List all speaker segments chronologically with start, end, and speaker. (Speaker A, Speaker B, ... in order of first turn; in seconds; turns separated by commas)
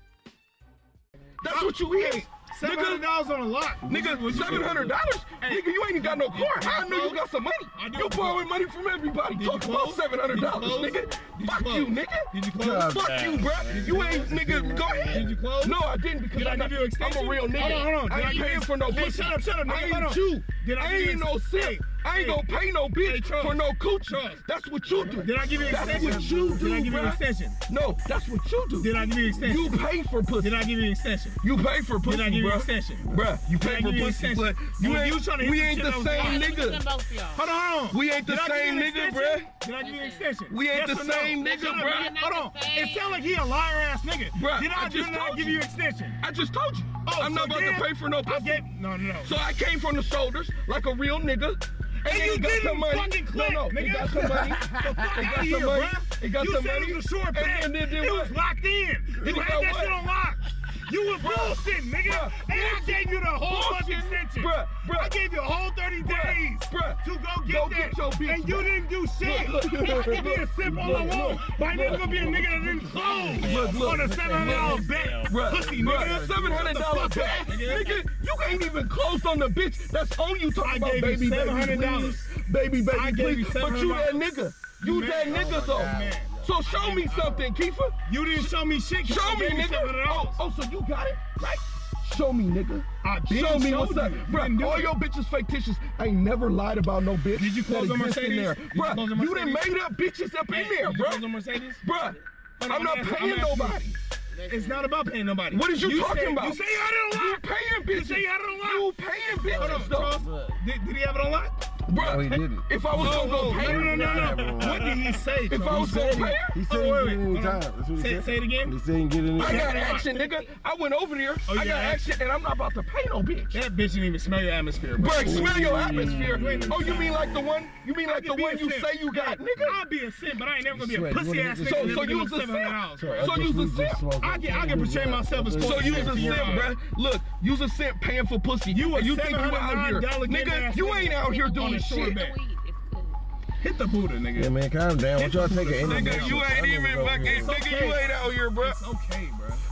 Speaker A: 1.4-3.0, Speaker B: 1.4-7.2, Speaker A: 3.8-30.5, Speaker B: 7.7-8.5, Speaker B: 9.3-14.4, Speaker B: 15.0-22.4, Speaker C: 17.5-17.9, Speaker B: 23.0-24.4, Speaker B: 25.1-27.6, Speaker B: 28.8-29.8, Speaker B: 30.4-31.4, Speaker A: 31.4-36.8, Speaker B: 32.0-36.6, Speaker C: 36.1-37.5, Speaker B: 37.3-46.2, Speaker A: 37.9-39.5, Speaker C: 39.8-40.3, Speaker A: 40.5-42.1, Speaker C: 41.4-43.2, Speaker A: 44.3-45.6, Speaker A: 46.2-48.6, Speaker B: 47.0-49.3, Speaker A: 49.2-58.4, Speaker B: 52.0-78.0, Speaker A: 59.2-60.0, Speaker A: 61.1-65.2, Speaker A: 66.0-88.5, Speaker C: 69.6-70.5, Speaker D: 73.1-75.3, Speaker C: 77.1-78.0, Speaker B: 80.6-82.2, Speaker B: 82.9-84.2, Speaker B: 84.8-87.5, Speaker D: 85.5-86.4, Speaker B: 88.1-90.4, Speaker A: 89.0-101.3, Speaker B: 93.0-94.9, Speaker B: 97.3-99.6, Speaker B: 100.5-101.8, Speaker A: 101.8-104.0, Speaker B: 102.6-103.8, Speaker C: 104.3-104.9, Speaker B: 104.5-108.9, Speaker A: 105.5-110.2, Speaker B: 109.5-111.5, Speaker A: 111.9-114.8, Speaker D: 112.0-112.6, Speaker B: 113.0-118.7, Speaker D: 113.5-114.9, Speaker A: 115.5-116.6, Speaker D: 115.7-118.1, Speaker D: 118.6-119.5, Speaker B: 119.3-120.3, Speaker A: 119.3-123.6, Speaker B: 121.5-122.0, Speaker B: 123.5-127.3, Speaker A: 125.0-129.8, Speaker D: 125.5-126.3, Speaker B: 128.1-133.5, Speaker D: 130.9-131.8, Speaker A: 131.6-134.0, Speaker D: 133.0-136.5, Speaker B: 134.2-136.7, Speaker A: 135.6-142.2, Speaker B: 138.7-142.4, Speaker C: 141.2-143.2, Speaker B: 143.6-144.5, Speaker B: 145.1-146.6, Speaker D: 145.2-147.5, Speaker A: 145.8-148.8, Speaker B: 147.2-149.6